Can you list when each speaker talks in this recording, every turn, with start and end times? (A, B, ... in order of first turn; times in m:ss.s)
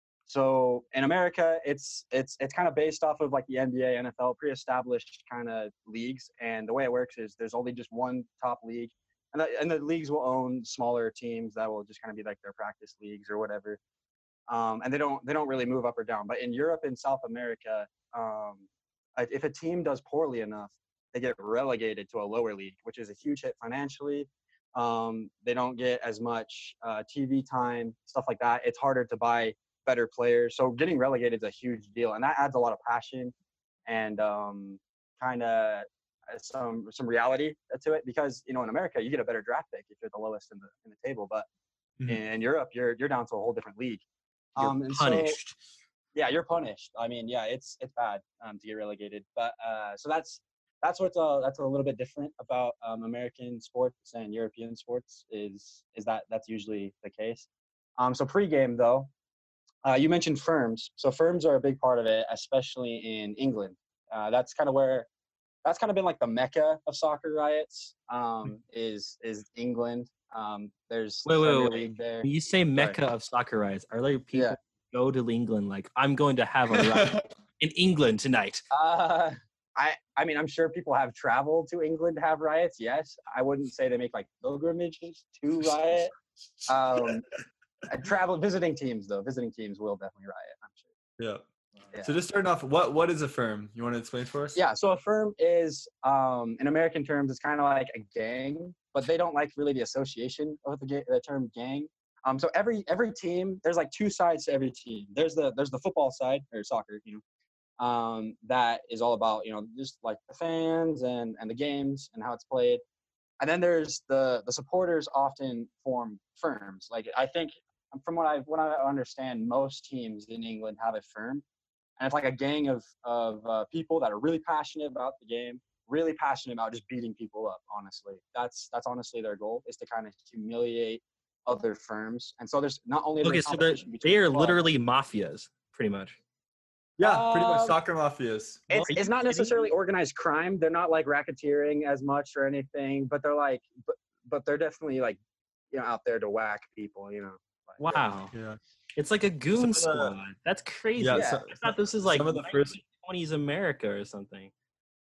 0:00.3-0:13.8 A
0:14.5-0:18.6 A
0:19.2-0:33.3 A
0:33.9-0:41.5 A
0:42.1-0:44.0 A
0:44.6-0:45.4 A
0:44.6-0:45.6 B
0:46.1-0:57.5 A
0:58.0-0:59.1 A
0:59.8-1:05.1 A
1:05.6-1:13.0 A
1:11.2-1:18.6 B
1:16.7-1:17.2 C
1:18.7-1:26.1 A
1:26.7-1:27.3 A
1:27.9-1:30.9 A
1:31.2-1:31.4 C
1:32.0-1:34.6 C
1:34.6-1:47.2 A
1:47.8-1:52.8 A
1:53.4-2:01.4 A
2:02.0-2:14.6 A
2:13.2-2:16.2 B
2:17.0-2:18.6 C
2:17.0-2:17.8 A
2:18.7-2:19.7 B
2:18.7-2:25.2 A
2:25.7-2:28.0 A
2:27.8-2:28.3 B
2:28.3-2:28.6 C
2:29.0-2:34.5 B
2:29.5-2:30.2 C
2:31.0-2:32.8 C
2:31.1-2:31.5 A